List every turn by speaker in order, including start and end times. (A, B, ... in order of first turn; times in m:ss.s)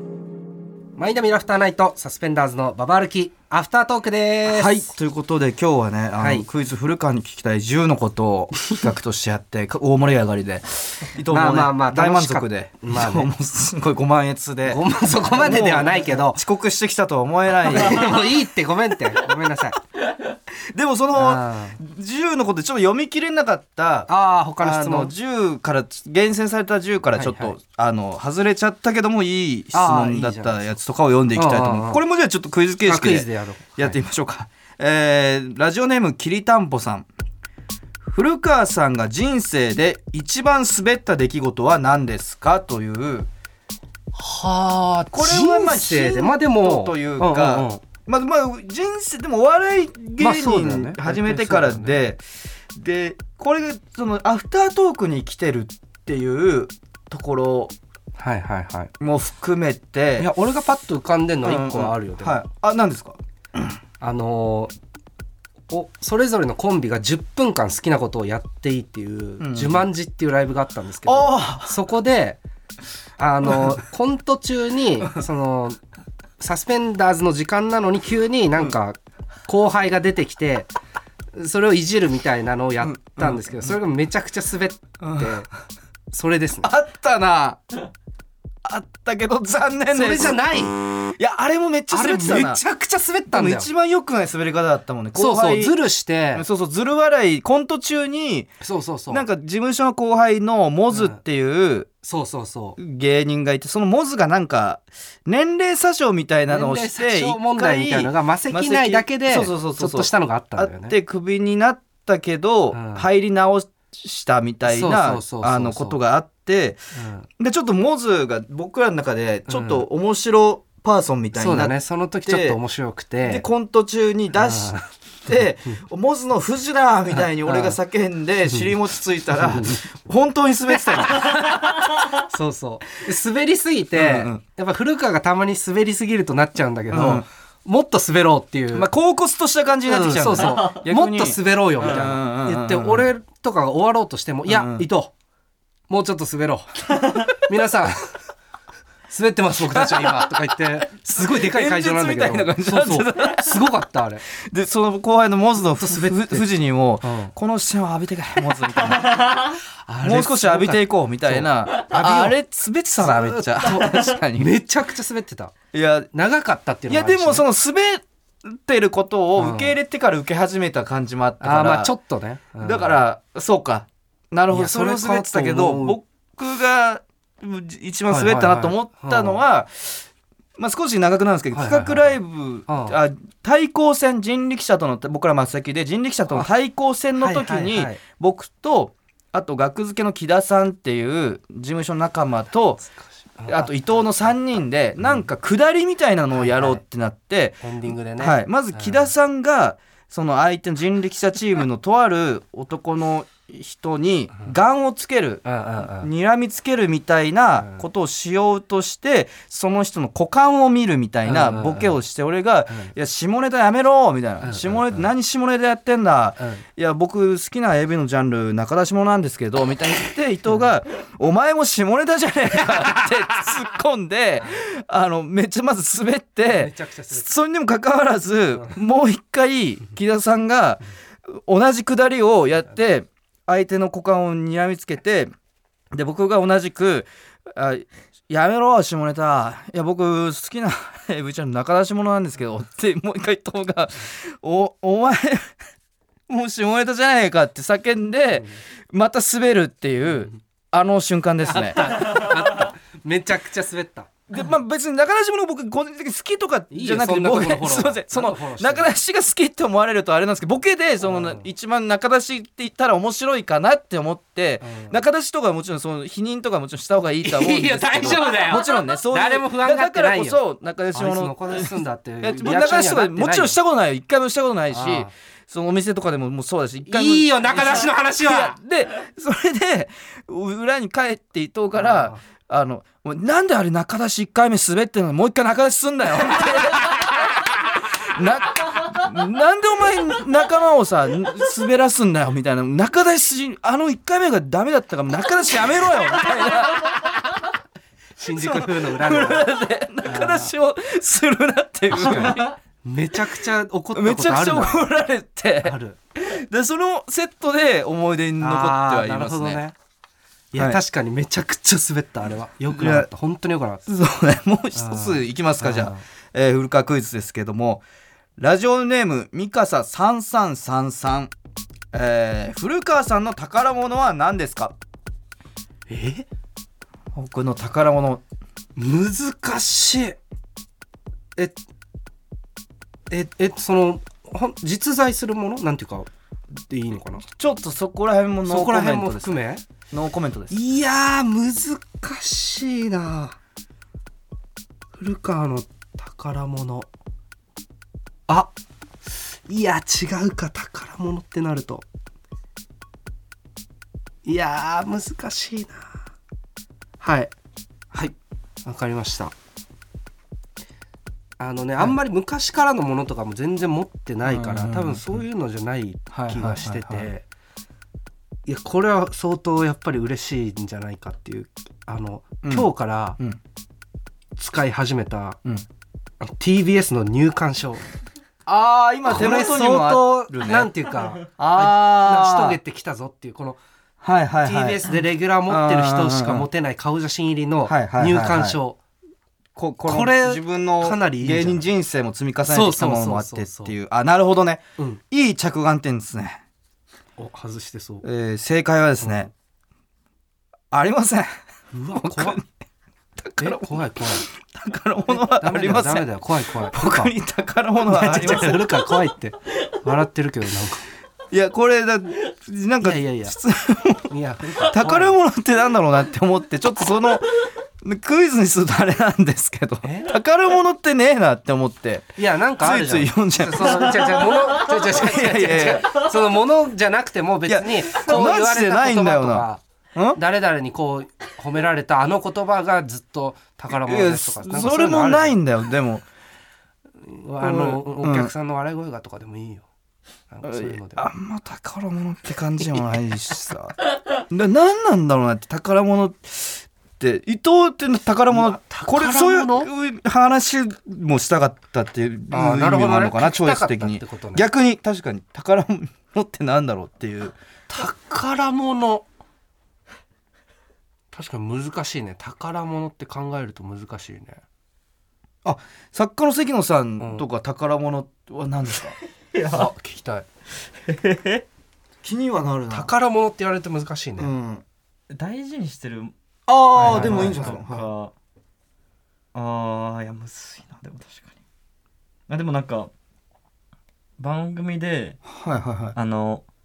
0:01.0-0:04.9 A
0:04.5-0:18.2 B
0:06.2-0:06.5 A
0:11.3-0:13.3 A
0:14.7-0:16.4 A
0:17.6-0:19.8 A
0:20.7-0:24.1 B
0:21.1-0:21.8 A
0:24.1-0:25.1 A
0:24.6-0:37.1 B
0:27.2-0:27.6 A
0:29.7-0:30.7 A
0:31.3-0:32.0 A
0:32.8-0:34.0 A
0:38.0-0:43.3 B
0:44.1-0:47.8 A
0:45.1-0:52.2 B
0:50.2-0:52.0 A
0:52.7-0:57.7 B
0:58.2-0:58.9 A
0:59.0-1:00.3 B
1:00.2-1:02.4 A
1:01.4-1:03.2 B
1:04.0-1:04.7 A
1:05.7-1:12.4 A
1:09.4-1:09.9 B
1:11.0-1:11.8 B
1:13.2-1:15.8 A
1:16.4-1:20.7 A
1:21.3-1:25.5 A
1:22.8-1:23.8 B
1:25.0-1:25.4 B
1:26.1-1:26.8 A
1:26.6-1:27.6 B
1:28.6-1:30.4 B
1:29.9-1:30.8 A
1:31.2-1:32.6 B
1:31.9-1:33.7 A
1:33.3-1:35.8 B
1:35.1-1:36.4 A
1:36.3-1:38.5 B
1:38.6-1:39.2 A
1:39.1-1:41.9 B
1:40.9-1:41.2 A
1:42.0-1:42.8 A
1:42.8-1:56.8 B
1:46.5-1:51.0 A
1:52.7-1:53.1 A
1:54.6-1:56.0 A
1:56.9-1:57.3 A
1:57.4-2:02.6 B
1:59.5-1:59.9 A
2:01.3-2:03.4 A
2:03.2-2:11.6 B
2:04.4-2:04.8 A
2:07.1-2:07.8 A
2:08.5-2:08.7 A
2:09.4-2:09.8 A
2:11.1-2:18.9 A
2:13.9-2:14.4 B
2:16.9-2:17.2 B
2:18.7-2:23.1 B
2:19.8-2:25.1 A
2:24.5-2:24.9 B
2:25.9-2:28.1 A
2:29.1-2:34.2 A
2:29.6-2:30.3 B
2:31.2-2:33.8 B
2:34.4-2:39.2 B
2:35.8-2:36.5 A
2:37.0-2:37.3 A
2:39.5-2:42.4 A
2:40.0-2:44.5 B
2:43.0-2:45.5 A
2:45.7-2:46.1 B
2:46.1-2:47.4 A
2:46.9-2:51.9 B
2:49.4-2:49.8 A
2:51.4-2:53.0 A
2:52.6-3:12.8 B
2:54.5-2:56.0 A
2:58.1-2:59.4 A
3:01.5-3:03.0 A
3:07.2-3:08.0 A
3:13.4-3:14.0 A
3:13.5-3:55.3 B
3:16.3-3:16.8 A
3:17.6-3:19.1 A
3:25.4-3:26.1 A
3:31.2-3:32.0 A
3:34.4-3:35.1 A
3:36.4-3:36.6 A
3:46.5-3:47.2 A
3:55.9-4:05.5 B
4:06.3-4:11.9 B
4:11.4-4:14.1 A
4:14.3-4:57.4 B
4:16.7-4:18.9 A
4:21.0-4:21.5 A
4:24.6-4:25.0 A
4:27.2-4:30.4 A
4:30.9-4:33.6 A
4:34.7-4:35.1 A
4:36.8-4:38.6 A
4:41.7-4:42.2 A
4:58.2-4:59.4 A
4:58.4-5:02.6 B
5:00.0-5:00.5 A
5:01.9-5:04.9 A
5:03.9-5:09.6 B
5:05.6-5:06.0 A
5:08.4-5:09.7 A
5:10.5-5:13.8 A
5:10.5-5:10.8 B
5:12.7-5:13.1 B
5:13.8-5:17.8 B
5:14.7-5:16.0 A
5:18.4-5:21.3 B
5:21.9-5:24.7 B
5:25.9-5:26.3 A
5:27.1-5:28.2 B
5:28.8-5:30.2 A
5:33.1-5:36.1 A
5:36.6-5:37.2 A
5:37.4-5:39.4 B
5:38.4-5:39.6 A
5:39.9-5:40.6 B
5:40.5-5:43.4 A
5:44.9-5:46.9 A
5:48.3-5:48.5 A
5:49.5-5:51.8 A
5:54.2-5:55.9 A
5:57.0-5:57.3 A
5:58.6-5:59.3 A
6:01.4-6:07.2 A
6:04.2-6:05.2 B
6:06.1-6:07.1 B
6:08.4-6:13.2 A
6:12.4-6:13.4 B
6:14.4-6:15.4 A
6:16.2-6:17.8 A
6:18.4-6:20.7 B
6:19.0-6:23.6 A
6:21.4-6:22.6 B
6:24.0-6:26.5 B
6:24.4-6:28.8 A
6:27.6-6:28.6 B
6:29.6-6:36.4 B
6:29.8-6:31.7 A
6:32.4-6:33.7 A
6:37.2-6:38.0 A
6:38.0-6:39.3 B
6:39.0-6:39.3 A
6:40.7-6:41.3 B
6:41.7-6:42.4 A
6:42.0-6:42.4 B
6:43.2-6:48.9 B
6:43.4-6:44.2 A
6:45.1-6:47.1 A
6:47.9-6:50.8 A
6:51.3-6:54.1 B
6:52.8-6:53.4 A
6:54.1-6:55.2 A
6:54.6-7:06.0 B
6:59.8-7:00.1 A
7:02.2-7:09.6 A
7:07.5-7:10.2 B
7:10.1-7:15.4 A
7:13.7-7:16.0 B
7:17.0-7:19.7 A
7:17.4-7:18.3 B
7:20.3-7:21.1 A
7:20.4-7:37.4 B
7:28.3-7:29.7 A
7:32.3-7:34.5 A
7:37.7-7:39.0 A
7:41.1-7:44.4 A
7:45.4-7:49.0 B
7:47.0-7:47.3 A
7:49.3-7:49.7 C
7:49.4-7:50.2 A
7:50.9-7:51.4 C
7:52.0-7:52.9 B
7:52.7-7:54.3 A
7:54.2-7:54.6 B
7:55.1-7:56.1 C
7:56.5-7:57.9 B
7:56.8-7:57.5 A
7:56.8-7:58.1 C
7:59.3-8:01.3 C
8:02.3-8:02.9 C
8:04.2-8:05.2 C
8:05.2-8:06.0 B
8:05.9-8:06.4 C